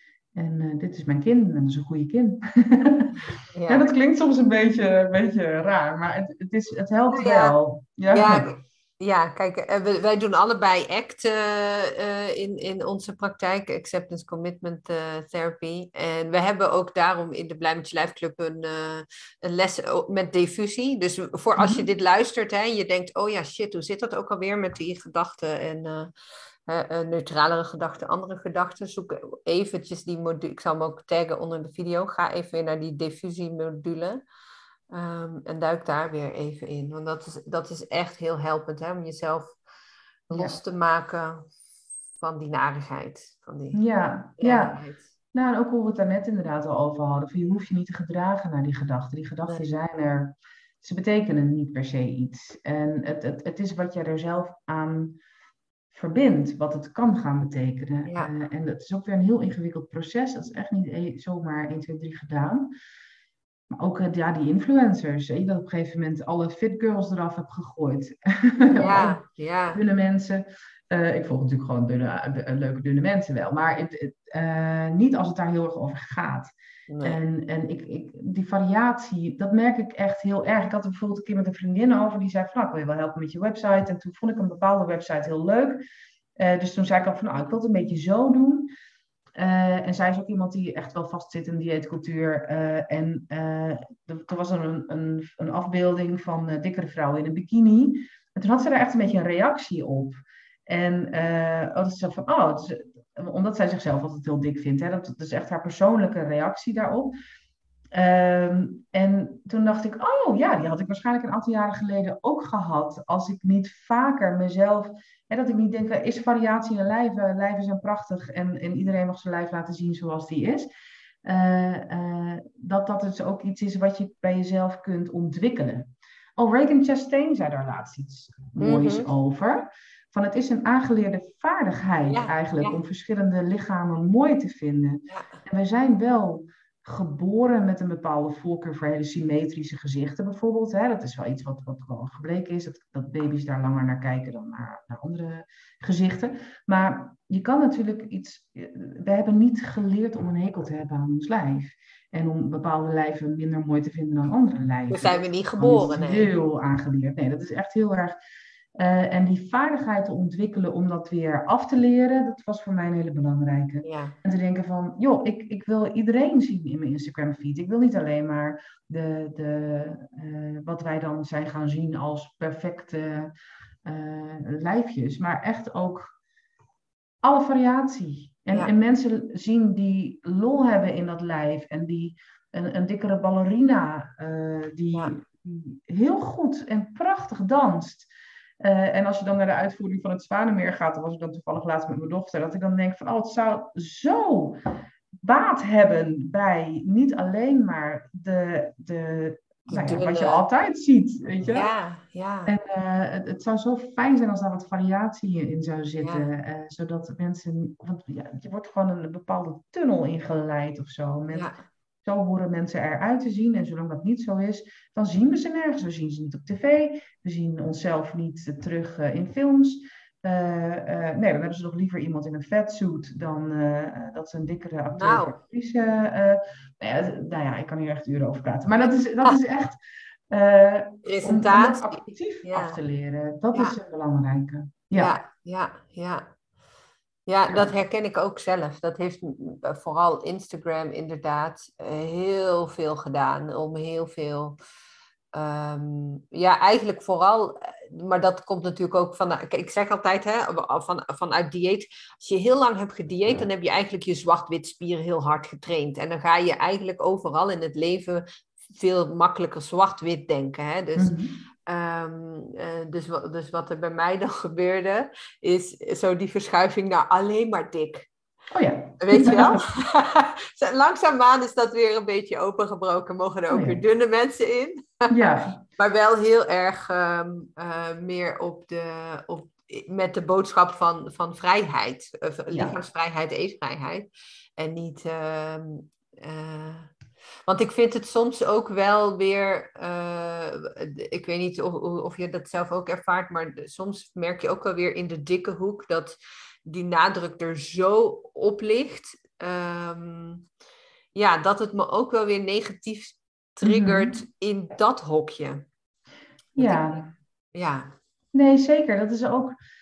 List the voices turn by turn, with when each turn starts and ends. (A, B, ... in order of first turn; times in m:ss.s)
0:00.4-0:08.5 A
0:03.2-0:03.9 B
0:07.1-0:07.6 B
0:08.1-0:26.1 B
0:21.6-0:21.8 A
0:26.7-0:34.2 B
0:34.9-0:39.6 B
0:40.3-0:41.5 B
0:42.2-0:43.8 B
0:43.7-0:44.8 A
0:44.4-0:45.1 B
0:45.3-0:55.2 A
0:55.9-1:02.7 A
1:03.7-1:09.2 A
1:08.7-1:09.8 B
1:09.7-1:25.8 A
1:16.9-1:17.2 B
1:26.4-1:28.7 A
1:29.4-1:40.2 A
1:40.7-1:47.1 A
1:47.9-2:00.7 A
2:01.2-2:38.2 A
2:08.6-2:09.1 B
2:12.0-2:12.8 B
2:15.1-2:15.4 B
2:34.9-2:36.3 B
2:38.8-2:53.3 A
2:43.8-2:44.1 B
2:53.8-2:56.1 A
2:57.2-3:08.1 A
3:08.6-3:14.6 A
3:15.2-3:21.7 A
3:19.7-3:20.4 B
3:21.5-3:22.5 B
3:22.5-3:31.5 A
3:26.0-3:26.3 B
3:31.3-3:31.6 B
3:32.0-3:49.8 A
3:44.9-3:45.4 B
3:50.3-3:55.2 A
3:51.0-3:52.8 B
3:55.0-3:56.3 B
3:57.3-4:04.6 B
4:05.3-4:21.1 B
4:21.0-4:21.3 A
4:21.7-4:28.1 B
4:28.5-4:29.6 A
4:29.0-4:35.1 B
4:33.5-4:33.8 A
4:35.1-4:35.6 A
4:35.6-4:46.9 B
4:42.5-4:42.8 A
4:47.5-5:00.4 B
5:01.1-5:05.6 B
5:03.6-5:04.1 A
5:06.5-5:07.0 B
5:06.6-5:07.1 A
5:07.5-5:07.9 B
5:08.3-5:09.5 A